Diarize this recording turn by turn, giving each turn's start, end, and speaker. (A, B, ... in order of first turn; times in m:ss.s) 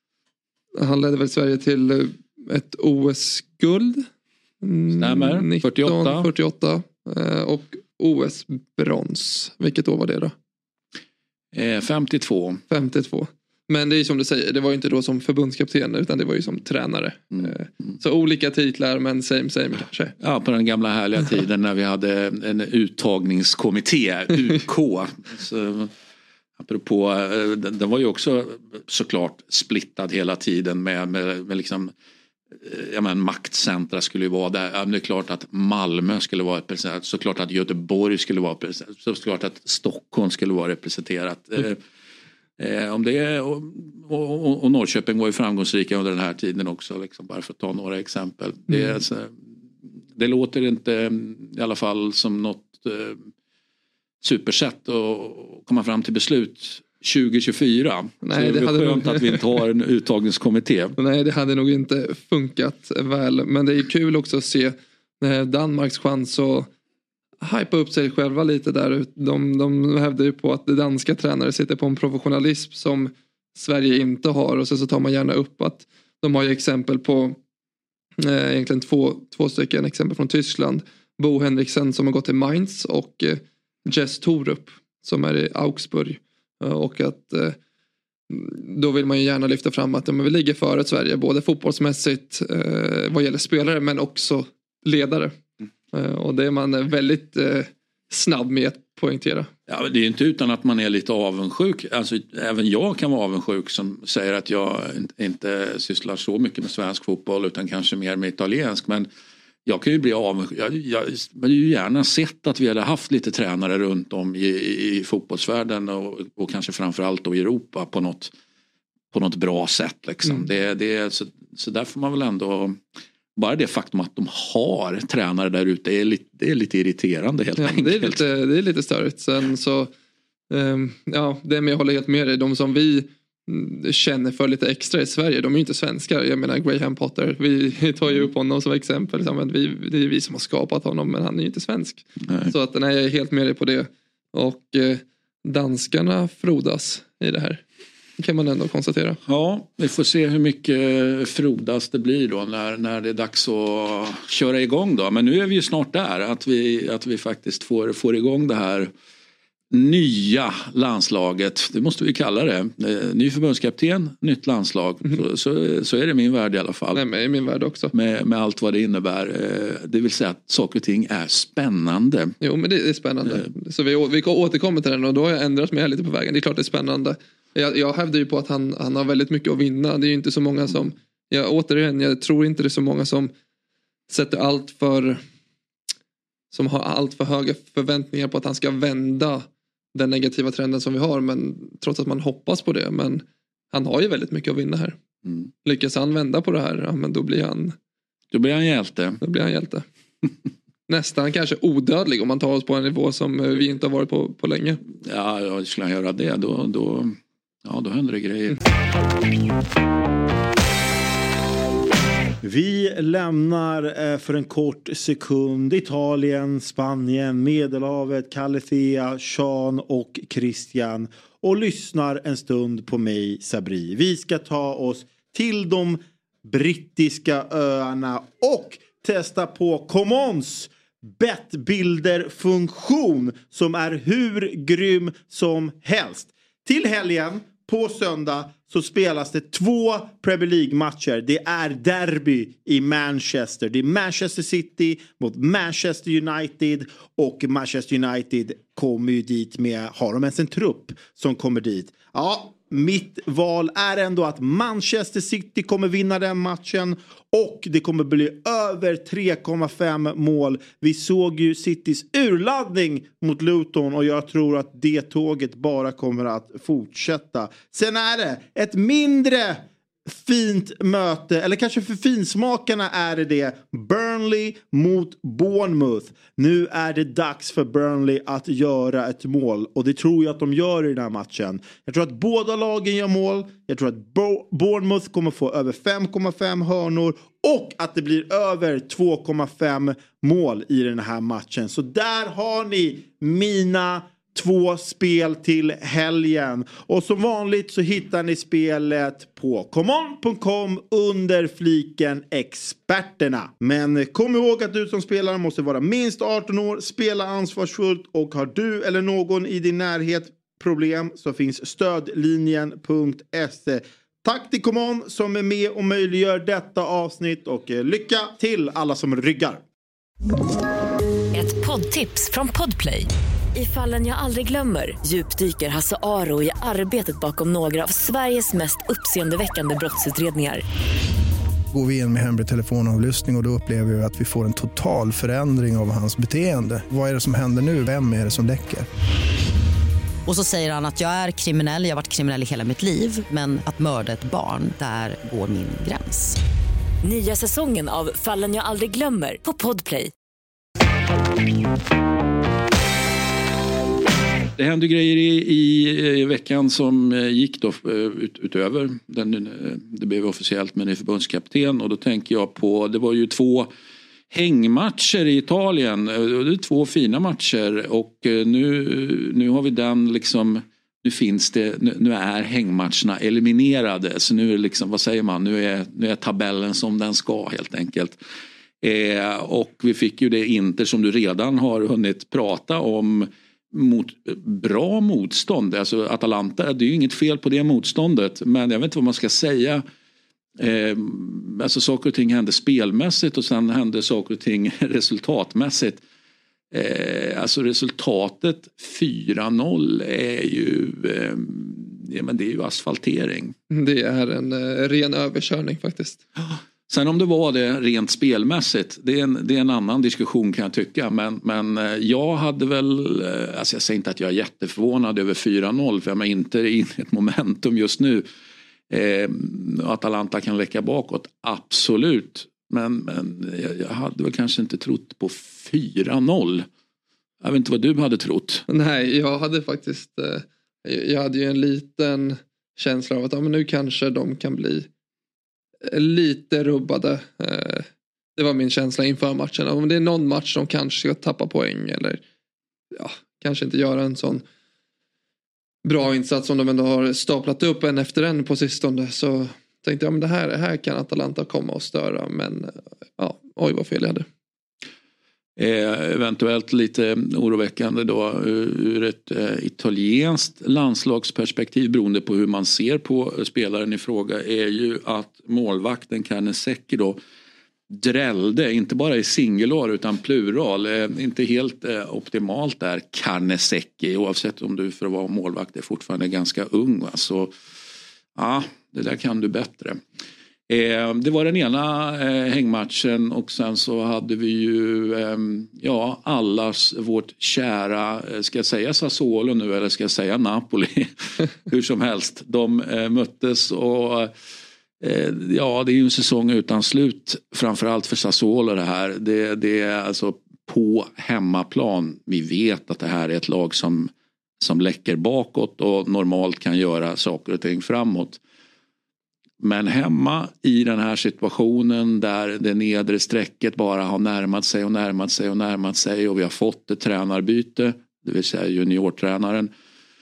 0:00.8-0:04.1 A
0:04.6-0:10.3 A
0:05.0-0:06.3 B
0:11.5-0:12.6 B
0:12.7-0:20.1 A
0:20.2-0:25.9 B
0:26.6-0:31.9 B
0:32.6-0:41.8 B
0:42.6-0:49.3 B
0:48.7-0:48.9 A
0:50.2-0:53.2 B
0:54.2-1:01.0 B
0:58.2-0:59.4 A
1:01.0-1:06.7 A
1:07.4-1:17.4 A
1:18.2-1:27.6 A
1:28.3-1:35.4 A
1:35.9-1:39.5 A
1:39.7-1:49.1 B
1:49.6-1:58.3 B
1:59.1-2:02.8 B
2:03.4-2:08.2 B
2:07.6-2:09.9 A
2:10.5-2:27.6 A
2:28.2-2:29.2 A
2:29.2-2:38.9 B
2:39.7-2:47.0 B
2:46.9-2:47.9 A
2:47.9-2:52.4 B
2:52.4-3:03.3 A
3:04.1-3:05.2 A
3:06.5-3:15.0 A
3:15.2-3:15.5 B
3:15.6-3:17.7 A
3:18.3-3:19.2 B
3:19.2-3:19.8 A
3:20.9-3:24.8 A
3:25.0-3:28.6 B
3:32.4-5:19.6 C
5:21.3-5:30.6 D
5:31.7-5:38.9 E
5:40.2-5:46.4 F
5:47.0-5:50.1 D
5:54.6-6:03.7 B
6:04.3-6:18.2 B
6:18.8-6:29.8 B
6:30.6-6:36.0 B
6:36.7-6:43.5 B
6:43.7-6:46.2 A
6:46.4-6:58.2 B
6:58.9-7:06.7 B
7:07.4-7:08.6 B
7:08.7-7:14.9 A
7:15.8-7:22.2 A
7:22.9-7:24.4 A
7:25.8-7:34.2 A
7:35.6-7:47.2 B
7:47.9-7:57.5 B
7:58.4-8:00.0 B
8:00.7-8:14.3 B
8:15.0-8:28.4 B
8:29.6-8:39.7 B